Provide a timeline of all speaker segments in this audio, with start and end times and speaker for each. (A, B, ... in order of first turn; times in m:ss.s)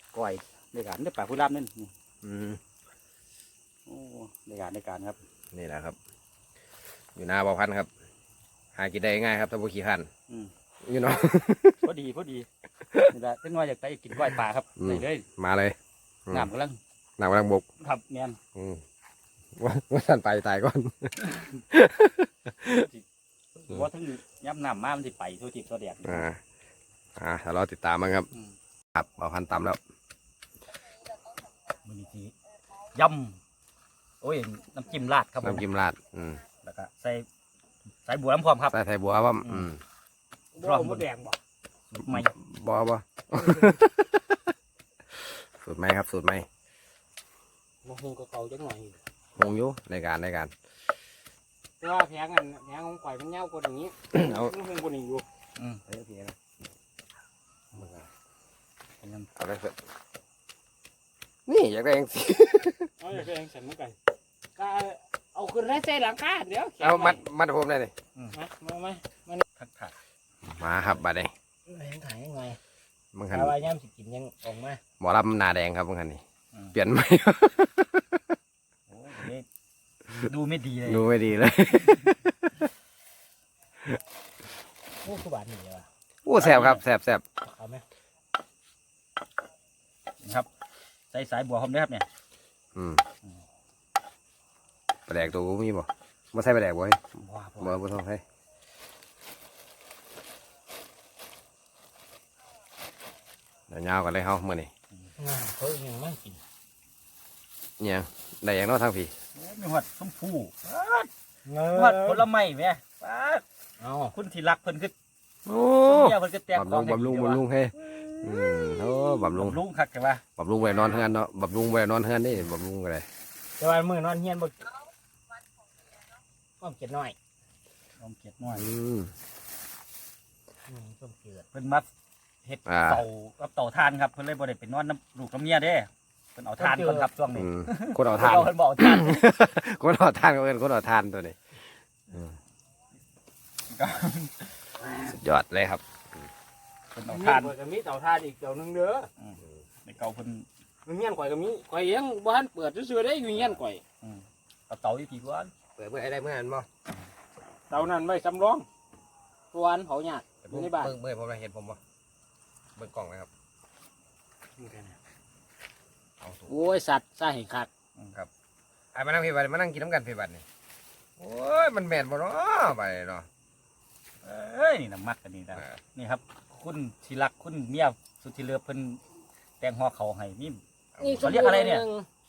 0:00.1-0:01.9 A
0:02.2-0:02.6 B
0:03.9-0:05.2 A
0:05.5-0:06.0 B
0:07.1-0:07.9 B
0:08.7-0:10.1 B
0:10.8-0:11.9 B
0:11.8-0:12.5 A
0:12.9-0:13.1 B
0:13.1-0:15.2 A
0:14.2-0:15.8 B
0:16.3-0:16.8 A
0:17.2-0:17.6 B
0:17.8-0:18.4 A
0:18.5-0:18.8 B
0:19.6-0:22.9 B
0:22.6-0:23.0 A
0:23.6-0:26.2 A
0:26.0-0:26.4 B
0:27.2-0:28.3 B
0:28.9-0:29.8 B
0:31.8-0:32.3 A
0:32.9-0:33.4 A
0:34.2-0:35.7 A
0:35.4-0:36.4 B
0:36.6-0:37.2 A
0:38.0-0:38.7 A
0:38.7-0:39.8 B
0:39.4-0:39.7 A
0:40.5-0:41.4 C
0:40.6-0:41.0 A
0:41.9-0:42.3 A
0:42.0-0:44.4 B
0:43.4-0:43.7 C
0:45.1-0:46.5 B
0:47.8-0:49.0 C
0:49.4-0:50.5 B
0:51.8-0:55.2 C
0:54.1-0:54.5 B
0:55.6-0:55.8 A
0:55.8-0:56.3 B
0:57.7-0:58.1 B
0:59.0-0:59.3 A
0:59.4-0:59.8 B
1:01.5-1:02.9 B
1:03.0-1:04.0 C
1:04.6-1:07.2 C
1:06.8-1:07.9 B
1:08.3-1:09.4 C
1:09.6-1:09.9 A
1:10.4-1:11.3 B
1:11.7-1:12.6 C
1:13.1-1:13.6 B
1:13.3-1:14.8 C
1:15.0-1:16.2 B
1:16.7-1:18.2 B
1:18.9-1:19.4 A
1:20.1-1:21.1 A
1:20.8-1:22.7 B
1:25.0-1:25.9 C
1:26.2-1:27.2 B
1:26.4-1:26.8 A
1:27.4-1:27.8 C
1:31.1-1:32.0 A
1:32.7-1:33.0 B
1:35.1-1:37.0 B
1:37.1-1:37.8 A
1:37.6-1:38.2 B
1:43.7-1:44.7 B
1:45.2-1:46.4 C
1:47.8-1:49.1 B
1:49.3-1:51.1 A
1:51.4-1:52.2 C
1:51.7-1:53.4 A
1:53.8-1:54.1 C
1:54.1-1:54.9 A
1:55.4-1:59.6 B
1:55.8-2:00.2 A
2:00.4-2:03.1 B
2:03.6-2:04.7 C
2:06.6-2:07.2 C
2:08.0-2:08.7 A
2:08.4-2:09.1 B
2:10.6-2:11.5 C
2:11.5-2:11.9 A
2:12.4-2:19.2 A
2:12.6-2:13.0 B
2:16.6-2:17.1 C
2:17.3-2:22.4 B
2:23.7-2:24.5 A
2:24.8-2:25.2 C
2:25.1-2:26.2 B
2:26.9-2:27.5 A
2:27.0-2:29.1 C
2:29.2-2:30.5 A
2:30.8-2:33.8 C
2:34.0-2:35.5 A
2:35.8-2:36.7 B
2:37.7-2:38.7 C
2:39.5-2:41.0 C
2:40.4-2:41.8 B
2:42.8-2:43.3 B
2:44.6-2:45.0 C
2:46.2-2:46.7 B
2:46.5-2:47.7 C
2:48.9-2:50.4 B
2:51.2-2:53.3 B
2:54.2-2:59.0 A
2:55.5-2:55.8 B
2:59.6-3:00.6 A
3:00.9-3:01.6 B
3:01.0-3:02.1 C
3:01.2-3:01.9 A